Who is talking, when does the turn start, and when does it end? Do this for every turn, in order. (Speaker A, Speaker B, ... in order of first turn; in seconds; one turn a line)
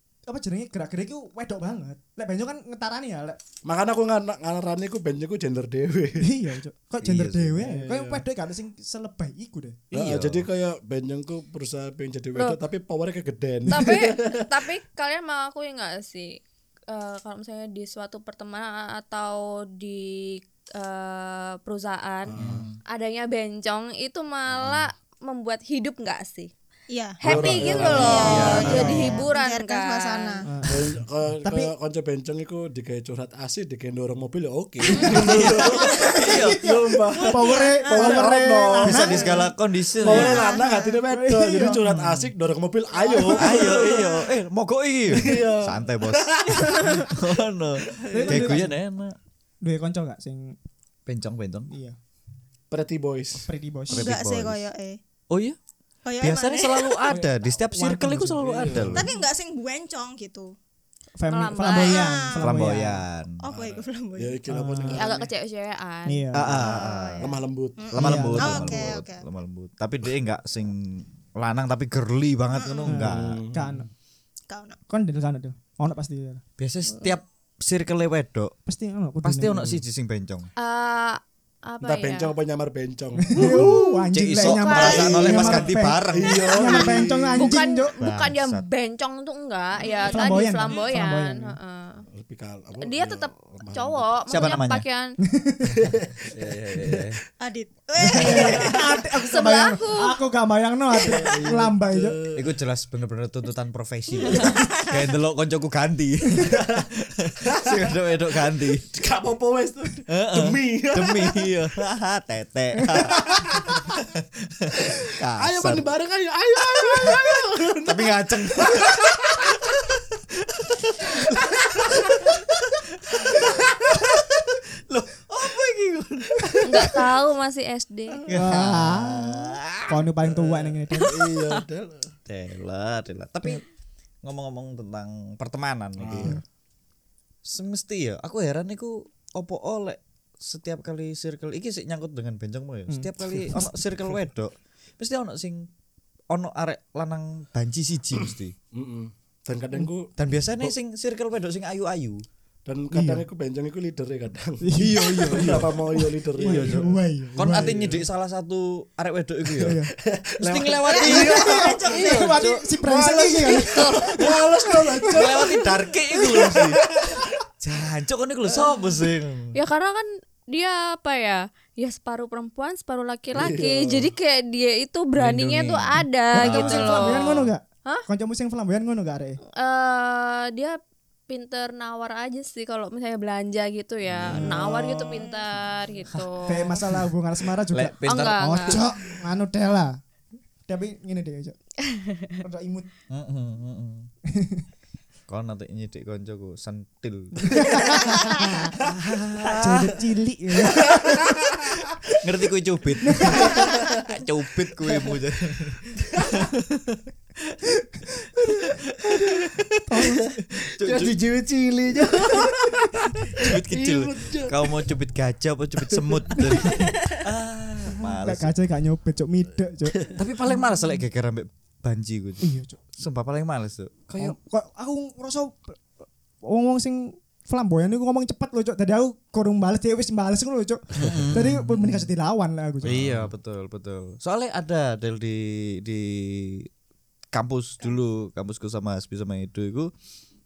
Speaker A: 0.3-3.4
Speaker B: 3.6-6.3
Speaker A: 6.2-9.8
Speaker C: 7.0-7.6
Speaker B: 7.6-8.2
Speaker B: 9.9-14.5
Speaker C: 9.9-10.5
Speaker D: 13.7-22.3
Speaker B: 22.3-22.7
Speaker C: 22.4-22.8
Speaker D: 22.9-26.5
Speaker E: 26.9-30.5
Speaker D: 27.2-30.5
Speaker B: 27.2-28.7
Speaker C: 27.3-29.3
Speaker A: 28.3-29.2
Speaker A: 30.5-31.7
Speaker B: 30.7-39.4
Speaker A: 34.9-39.5
Speaker C: 35.2-36.6
Speaker E: 37.1-38.3
Speaker C: 38.8-40.6
Speaker B: 40.0-44.2
Speaker E: 40.0-41.0
Speaker A: 41.1-41.9
Speaker C: 41.8-42.3
Speaker A: 43.0-43.8
Speaker E: 43.1-43.7
Speaker C: 43.4-49.2
Speaker B: 45.1-47.1
Speaker B: 47.8-48.6
Speaker A: 48.1-48.8
Speaker A: 49.6-50.6
Speaker C: 51.1-51.7
Speaker A: 51.7-52.0
Speaker B: 52.7-53.5
Speaker A: 53.5-54.1
Speaker E: 53.9-55.0
Speaker C: 53.9-54.6
Speaker C: 55.3-55.6
Speaker E: 56.0-57.0
Speaker C: 56.2-59.1
Speaker B: 57.0-59.1
Speaker E: 59.0-60.5
Speaker A: 61.2-63.0
Speaker D: 61.3-62.2
Speaker E: 61.6-62.5
Speaker C: 62.4-63.4
Speaker E: 63.4-64.4
Speaker B: 63.5-65.3
Speaker A: 64.5-65.2
Speaker E: 64.9-65.2
Speaker D: 65.0-66.2
Speaker A: 66.1-66.6
Speaker C: 66.3-67.3
Speaker E: 66.6-69.2
Speaker B: 67.2-68.4
Speaker C: 67.9-73.4
Speaker A: 68.0-68.8
Speaker E: 72.5-72.9
Speaker A: 72.9-73.9
Speaker B: 73.0-73.9
Speaker E: 74.5-74.8
Speaker A: 74.9-76.4
Speaker C: 76.6-78.5
Speaker A: 78.7-79.7
Speaker C: 79.2-80.5
Speaker B: 79.6-79.8
Speaker D: 80.6-82.4
Speaker B: 81.8-83.8
Speaker A: 83.3-87.9
Speaker D: 83.5-85.4
Speaker C: 84.1-86.4
Speaker B: 84.8-87.6
Speaker D: 86.2-92.0
Speaker C: 88.0-88.6
Speaker E: 89.8-90.8
Speaker A: 90.1-91.6
Speaker B: 92.1-94.1
Speaker D: 92.8-95.2
Speaker C: 94.3-94.8
Speaker A: 95.2-95.9
Speaker B: 95.7-97.2
Speaker C: 96.3-97.2
Speaker E: 97.4-98.8
Speaker A: 98.0-102.2
Speaker C: 98.2-98.6
Speaker B: 98.2-98.7
Speaker D: 99.1-100.2
Speaker B: 101.0-102.5
Speaker C: 102.4-108.8
Speaker E: 104.3-104.6
Speaker B: 106.5-106.8
Speaker B: 107.4-108.0
Speaker B: 108.9-111.5
Speaker C: 110.1-115.9
Speaker B: 112.9-114.0
Speaker B: 115.0-119.5
Speaker C: 117.8-127.0
Speaker D: 126.6-128.2
Speaker C: 128.3-130.0
Speaker A: 128.3-131.1
Speaker B: 130.3-132.1
Speaker D: 131.0-131.6
Speaker C: 132.3-133.6
Speaker C: 134.2-136.4
Speaker B: 136.0-136.4
Speaker C: 137.4-145.7
Speaker A: 142.9-143.8
Speaker C: 146.3-148.6
Speaker B: 148.7-150.7
Speaker C: 150.2-152.2
Speaker B: 152.7-158.0
Speaker A: 152.9-153.3
Speaker A: 154.6-157.8
Speaker C: 154.8-159.8
Speaker A: 159.6-159.9
Speaker B: 160.0-167.4
Speaker C: 160.4-162.7
Speaker E: 160.9-161.4
Speaker A: 161.0-165.3
Speaker C: 163.7-164.1
Speaker C: 165.1-166.9
Speaker C: 167.6-169.6
Speaker B: 168.5-169.1
Speaker D: 169.5-178.1
Speaker B: 173.3-174.1
Speaker C: 175.2-177.5
Speaker A: 176.3-179.4
Speaker D: 179.5-180.8
Speaker D: 181.3-186.8
Speaker C: 184.1-184.7
Speaker A: 184.3-185.3
Speaker C: 186.1-186.8
Speaker A: 186.5-190.0
Speaker C: 187.7-188.9
Speaker D: 188.0-188.8
Speaker A: 190.7-191.6
Speaker D: 191.9-192.3
Speaker A: 192.4-192.9
Speaker C: 193.1-194.1
Speaker A: 194.3-194.6
Speaker C: 195.3-198.2
Speaker A: 197.4-198.7
Speaker C: 198.8-199.9
Speaker A: 199.4-201.3
Speaker B: 200.9-201.8
Speaker C: 202.2-207.0
Speaker A: 203.1-203.7
Speaker B: 203.2-204.1
Speaker B: 204.9-205.2
Speaker B: 206.0-206.4
Speaker C: 208.6-209.7
Speaker A: 209.9-210.3
Speaker B: 210.0-214.8
Speaker C: 210.8-211.1
Speaker C: 213.4-218.5
Speaker B: 215.9-216.9
Speaker A: 216.4-216.9
Speaker A: 218.2-220.1
Speaker C: 220.1-222.5
Speaker A: 222.4-222.8
Speaker C: 223.0-224.3
Speaker A: 224.2-225.8
Speaker A: 226.4-233.1
Speaker B: 231.0-231.2
Speaker C: 231.0-232.1
Speaker C: 232.8-236.7
Speaker B: 232.9-233.3
Speaker C: 237.3-239.9